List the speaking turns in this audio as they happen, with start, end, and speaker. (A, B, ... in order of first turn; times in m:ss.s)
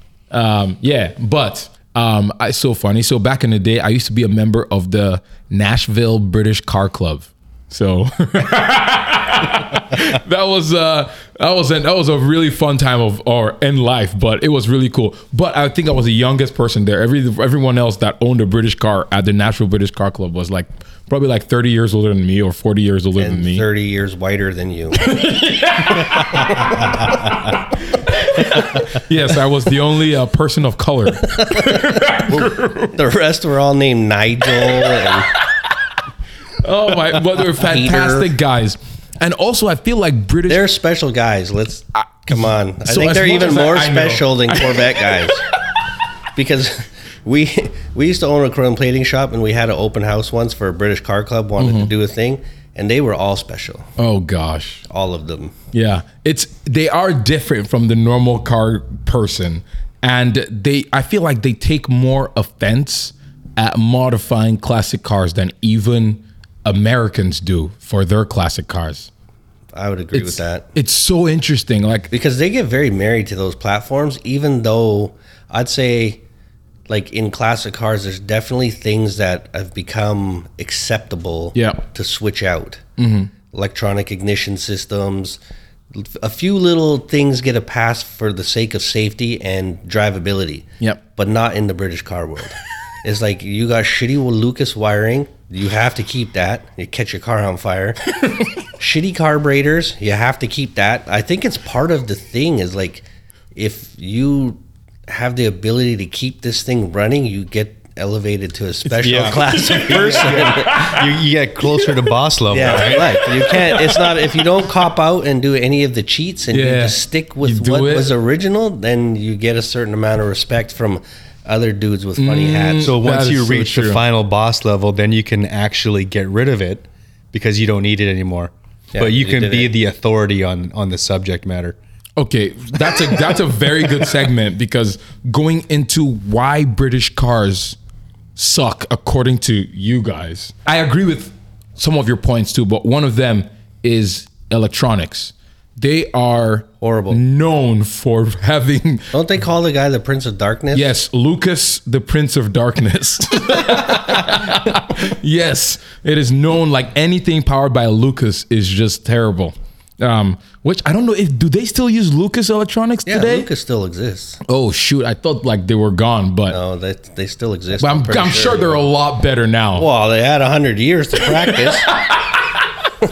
0:00.3-0:23.6 A
0:23.2-0:25.1 B
0:24.9-0:33.0 A
0:26.3-0:26.8 B
0:31.2-0:35.3 B
0:34.6-0:35.1 A
0:36.6-0:40.7 A
0:37.4-0:38.3 B
0:40.5-0:45.4 B
0:42.3-0:45.4 A
0:46.3-0:53.9 B
0:51.6-0:51.9 A
0:54.0-0:54.8 A
0:54.9-0:55.5 B
0:55.7-1:09.1 A
1:09.7-1:10.7 B
1:10.1-1:12.1 A
1:12.1-1:16.2 B
1:16.9-1:22.8 B
1:21.5-1:21.8 A
1:23.0-1:23.3 A
1:23.5-1:25.4 B
1:25.9-1:38.0 B
1:38.7-1:50.9 B
1:49.0-1:51.1 A
1:49.0-1:53.2 C
1:52.5-2:03.0 B
1:53.4-1:54.2 A
1:56.5-1:58.1 A
2:02.2-2:04.0 A
2:02.8-2:11.8 C
2:08.9-2:09.7 B
2:12.2-2:17.8 A
2:12.9-2:13.2 C
2:18.4-2:29.1 A
2:26.8-2:27.2 B
2:29.1-2:30.9 B
2:30.7-2:43.5 A
2:43.0-2:44.4 B
2:44.4-2:46.6 A
2:46.5-2:48.8 B
2:47.8-2:49.9 A
2:49.7-2:51.9 B
2:51.4-2:52.6 A